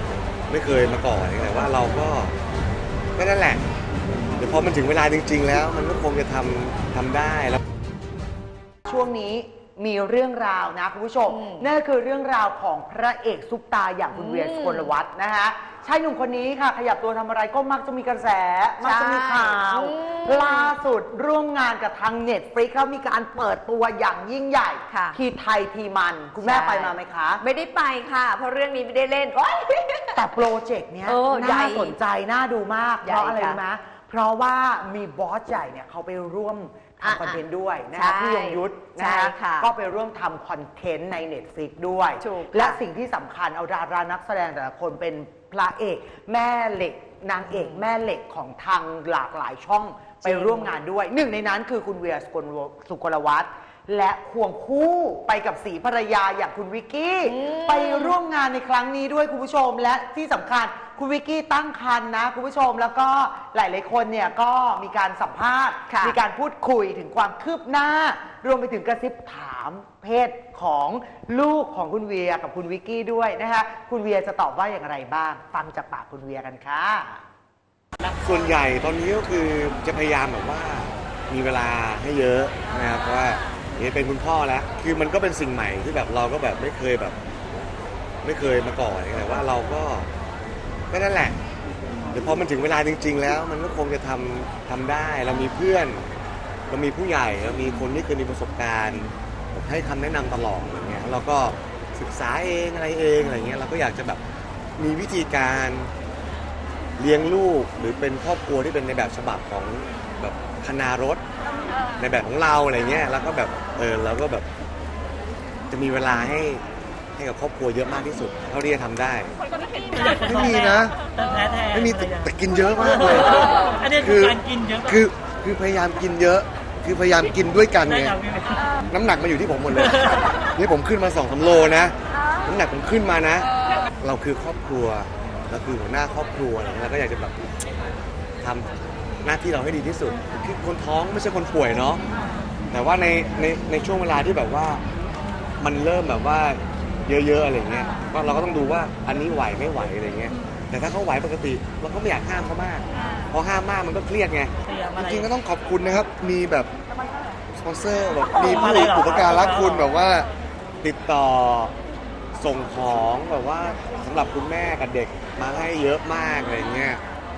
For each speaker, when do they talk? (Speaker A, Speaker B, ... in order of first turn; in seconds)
Speaker A: 0.5-2.4, 3.2-3.6, 4.4-7.6, 78.2-87.2, 88.2-90.1, 90.9-91.4, 92.1-96.1, 96.7-104.2, 104.8-105.9, 107.0-111.2, 112.0-114.5, 115.7-116.6, 117.2-119.4, 120.0-121.0, 121.7-128.2, 128.9-137.4, 138.4-138.7, 139.2-142.0, 142.7-144.8, 145.6-156.7, 157.6-160.3, 160.8-161.7, 162.3-167.0
Speaker B: 8.9-27.4, 30.2-77.2
Speaker C: 11.3-11.7, 14.1-14.9, 18.8-20.8, 24.9-25.2, 26.4-30.4, 31.1-32.0, 33.0-33.6, 37.0-37.4, 37.9-39.7, 42.2-42.8, 47.5-47.9, 50.2-50.8, 57.2-58.1, 65.9-66.2
Speaker D: 121.2-121.7, 123.8-124.8, 128.2-128.6, 154.7-155.1, 158.9-159.3